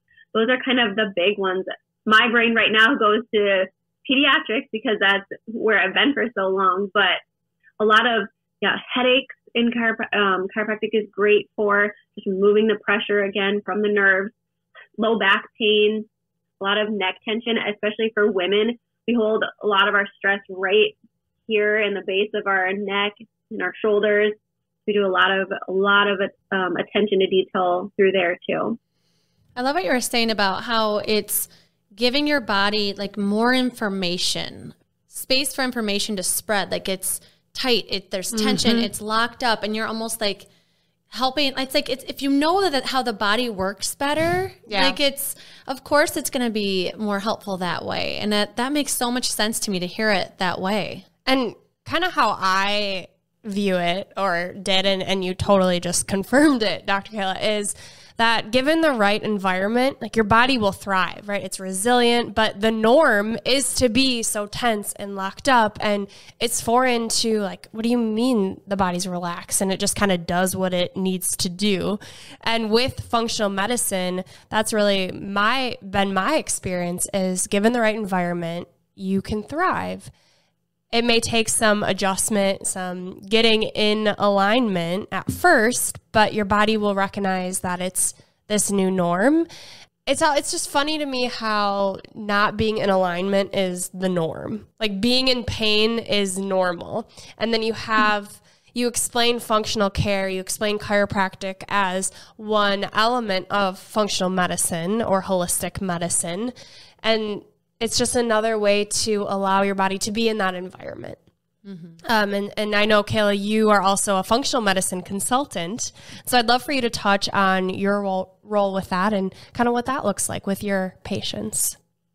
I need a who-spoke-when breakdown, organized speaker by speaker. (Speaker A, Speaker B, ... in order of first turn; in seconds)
Speaker A: 0.3-7.2, 7.8-14.3, 15.0-16.1, 16.6-20.9, 21.5-24.3, 24.9-28.8
Speaker B: 29.6-40.5, 41.1-51.0, 111.6-112.0
Speaker C: 38.3-38.9, 44.7-45.0, 51.2-80.1, 80.9-89.5, 90.0-111.2, 112.0-121.8